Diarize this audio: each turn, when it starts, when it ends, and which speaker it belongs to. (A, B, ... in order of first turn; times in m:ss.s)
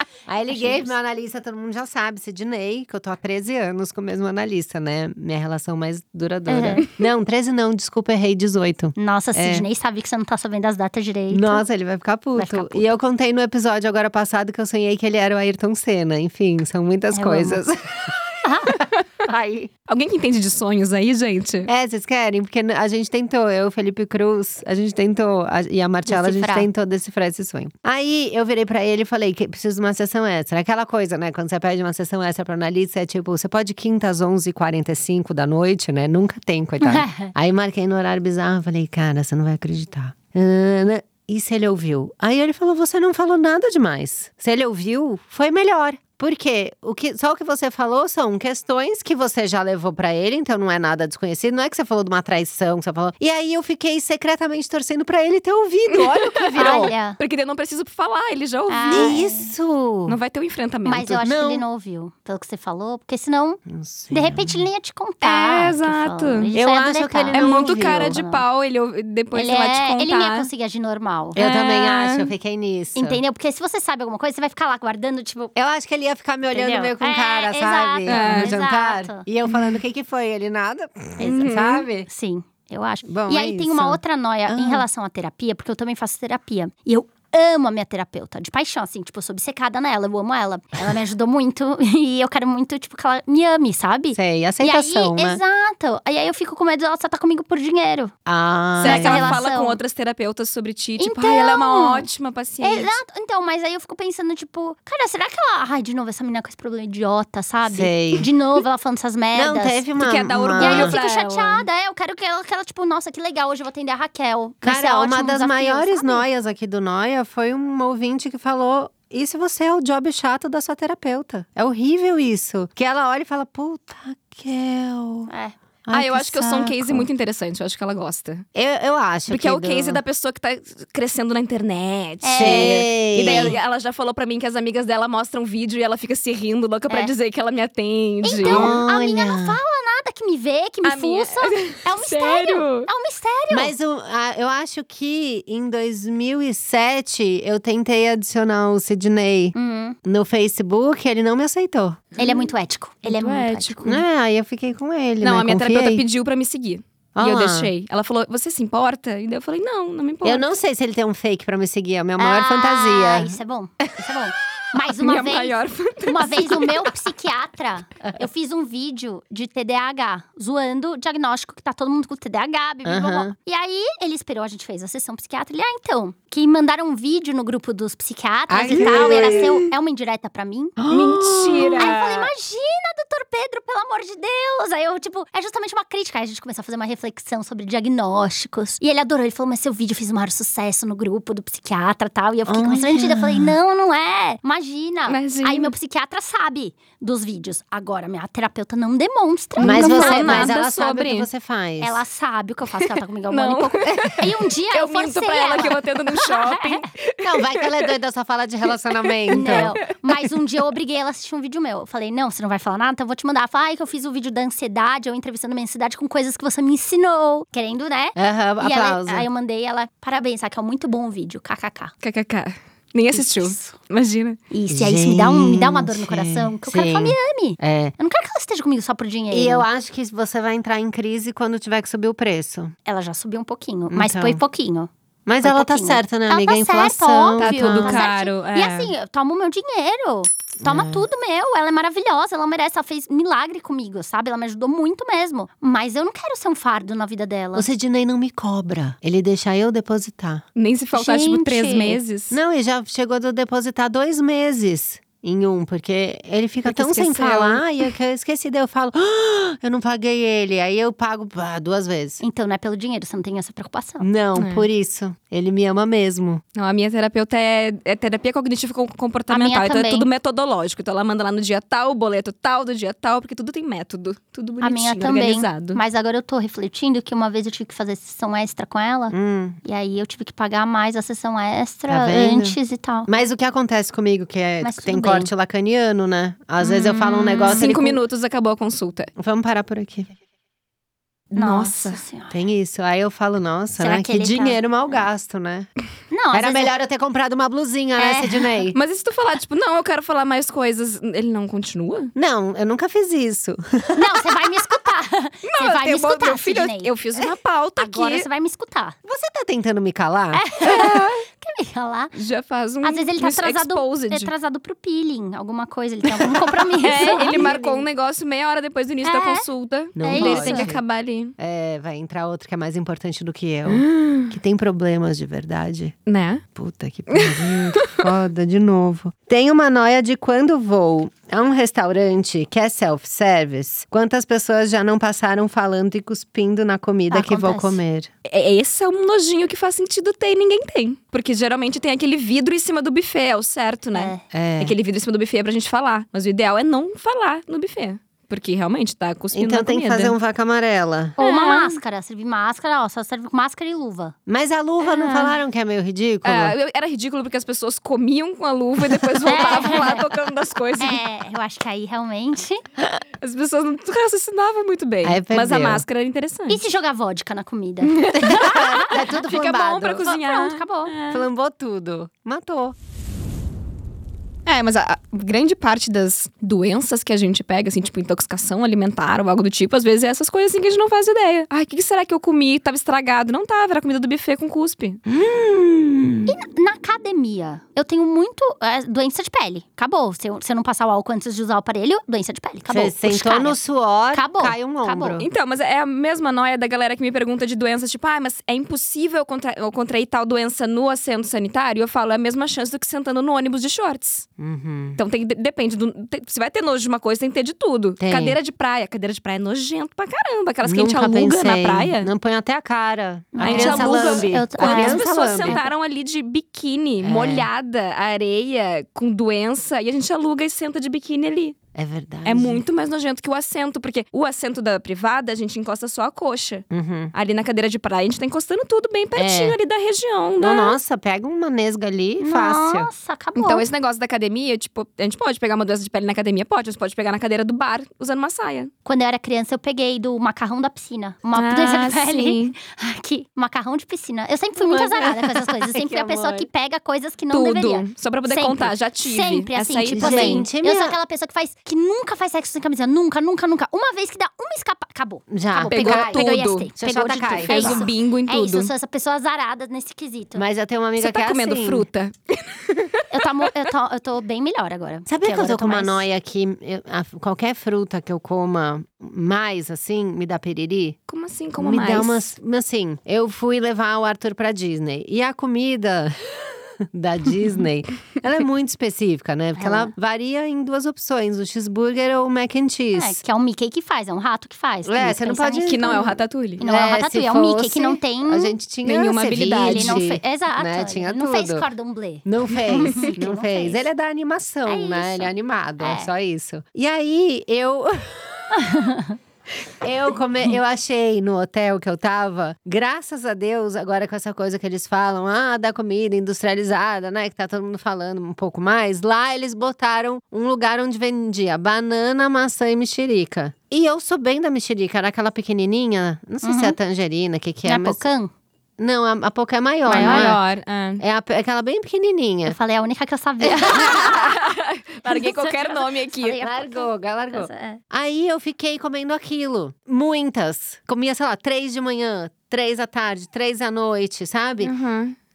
0:00.3-0:09.7 A
0:00.5-0:00.9 B
0:06.5-0:06.8 B
0:09.0-0:11.6 B
0:11.3-0:19.7 A
0:12.4-0:12.9 B
0:17.1-0:17.6 B
0:18.4-0:18.8 B
0:19.9-0:21.7 C
0:21.7-0:56.9 A
0:26.1-0:26.7 B
0:36.8-0:37.3 B
0:55.9-0:59.2 C
0:56.6-0:57.2 B
0:58.7-0:59.5 B
0:58.9-1:00.2 A
1:00.1-1:01.2 C
1:00.8-1:03.6 B
1:01.2-1:01.6 A
1:03.7-1:04.6 A
1:04.1-1:08.4 B
1:05.2-1:06.5 C
1:06.5-1:08.2 A
1:07.3-1:10.5 C
1:09.3-1:11.4 B
1:11.4-1:13.2 A
1:11.4-1:12.3 C
1:13.0-1:15.5 B
1:15.6-1:22.1 A
1:16.5-1:19.3 B
1:18.1-1:18.5 C
1:21.2-1:21.9 C
1:22.1-1:38.1 B
1:23.0-1:24.8 A
1:34.1-1:35.4 A
1:38.3-1:39.4 A
1:38.8-1:39.8 B
1:38.8-1:43.0 C
1:41.0-1:42.1 B
1:42.6-1:49.8 B
1:47.7-1:48.3 A
1:49.3-1:51.0 A
1:50.0-1:51.6 C
1:50.6-1:56.2 B
1:54.6-2:05.3 A
2:05.3-2:05.6 B
2:05.8-2:07.1 A
2:05.9-2:08.4 C
2:08.6-2:10.0 A
2:09.3-2:18.8 C
2:12.2-2:13.6 B
2:12.4-2:13.6 A
2:18.2-2:23.7 B
2:18.4-2:19.6 A
2:20.8-2:22.9 C
2:23.5-2:32.0 A
2:29.6-2:30.0 B
2:32.2-2:33.8 B
2:32.2-2:32.5 C
2:33.0-2:34.0 C
2:33.8-2:36.0 A
2:35.2-2:40.4 C
2:37.2-2:37.7 A
2:40.2-2:43.4 A
2:42.2-3:00.8 B
2:45.0-2:46.9 C
2:52.8-2:53.3 A
2:58.5-2:59.6 A
2:58.7-2:59.6 C
3:00.8-3:01.8 A
3:00.9-3:02.3 C
3:01.7-3:20.6 B
3:12.5-3:13.6 A
3:15.1-3:15.7 C
3:19.6-3:21.3 C
3:19.6-3:22.0 A
3:21.8-3:26.9 B
3:22.8-3:27.9 C
3:27.2-3:29.8 A
3:29.0-3:29.8 C
3:29.3-3:41.9 B
3:38.2-3:39.3 A
3:42.0-3:44.4 C
3:43.1-3:43.8 B
3:44.5-3:49.7 B
3:44.7-3:47.9 A
3:49.3-3:52.8 A
3:52.9-3:54.9 B
3:53.9-3:54.4 A
3:55.3-3:58.1 A
3:55.4-4:07.7 B
3:57.4-3:58.9 C
4:00.6-4:01.1 A
4:07.6-4:10.4 A
4:10.6-4:12.4 C
4:10.9-4:12.0 B
4:12.3-4:22.2 A
4:16.6-4:17.7 C
4:22.2-4:24.1 B
4:24.0-4:26.4 A
4:24.4-4:24.7 C
4:26.6-4:35.8 C
4:29.3-4:30.1 B
4:34.6-4:43.1 B
4:39.1-4:39.6 A
4:41.9-4:48.0 A
4:44.6-4:45.3 B
4:46.7-4:47.7 B
4:47.4-4:49.1 C
4:49.2-4:50.1 A
4:51.3-4:52.0 C
4:51.4-4:52.3 B
4:52.3-4:55.7 A
4:53.8-4:55.0 B
4:56.1-4:56.7 B
4:56.3-4:58.8 A
4:58.0-4:58.6 B
4:58.8-5:02.1 C
5:02.2-5:04.5 A
5:04.0-5:06.9 B
5:05.5-5:08.3 C
5:07.8-5:09.0 B
5:09.0-5:11.1 A
5:10.3-5:12.1 B
5:10.7-5:11.1 C
5:12.2-5:14.3 C
5:12.8-5:17.4 B
5:16.2-5:21.3 C
5:16.8-5:17.9 A
5:19.0-5:19.5 B
5:20.0-5:20.8 A
5:20.0-5:20.8 B
5:21.4-5:26.0 A
5:23.7-5:24.3 C
5:26.1-5:26.4 C
5:26.6-5:38.1 A
5:27.1-5:28.1 C
5:37.1-5:37.8 B
5:38.3-5:50.2 C
5:43.9-5:44.2 B
5:44.3-5:44.8 A
5:49.3-5:51.2 A
5:51.2-5:51.8 C
5:51.2-5:54.2 B
5:54.3-5:56.6 A
5:54.8-5:55.3 B
5:56.2-6:01.0 C
5:59.2-6:00.1 B
6:00.8-6:02.6 B
6:03.2-6:06.6 C
6:05.0-6:05.8 A
6:06.5-6:09.0 B
6:07.9-6:11.3 C
6:08.2-6:10.1 A
6:10.1-6:10.9 B
6:11.1-6:12.7 A
6:14.5-6:25.0 C
6:25.1-6:26.3 A
6:26.3-6:33.6 B
6:32.7-6:35.3 A
6:34.1-6:35.2 B
6:35.2-6:44.3 C
6:44.4-6:45.0 A
6:45.0-6:52.1 C
6:48.0-6:48.4 A
6:50.6-6:55.6 A
6:53.3-6:55.7 B
6:53.4-7:01.6 C
6:57.0-6:57.5 A
7:01.8-7:02.6 A
7:02.2-7:10.8 C
7:06.7-7:07.1 A
7:09.2-7:09.6 A
7:10.4-7:12.9 A
7:12.2-7:13.6 B
7:13.4-7:18.7 C
7:18.8-7:40.4 B
7:21.4-7:22.6 C
7:24.6-7:26.5 A
7:27.3-7:30.5 C
7:29.9-7:31.0 A
7:35.3-7:37.9 A
7:35.7-7:36.7 C
7:37.4-7:38.7 C
7:40.4-7:41.9 A
7:41.0-7:43.3 C
7:43.1-7:46.0 B
7:45.1-7:51.0 A
7:51.1-7:52.3 C
7:51.6-8:03.2 A
7:59.6-7:59.9 B
8:03.0-8:08.6 B
8:04.8-8:06.1 A
8:05.6-8:06.6 C
8:06.6-8:11.7 A
8:08.8-8:10.1 C
8:09.6-8:13.9 B
8:12.2-8:18.6 A
8:14.7-8:16.1 B
8:18.5-8:19.2 B
8:19.8-8:38.1 A
8:36.4-8:36.8 B
8:37.6-8:38.3 B
8:38.8-8:40.4 A
8:39.9-8:40.4 B
8:39.9-8:41.0 C
8:41.0-8:42.6 A
8:42.5-8:44.4 B
8:43.4-8:46.4 C
8:45.0-8:47.8 B
8:46.4-8:54.7 A
8:54.6-8:55.2 C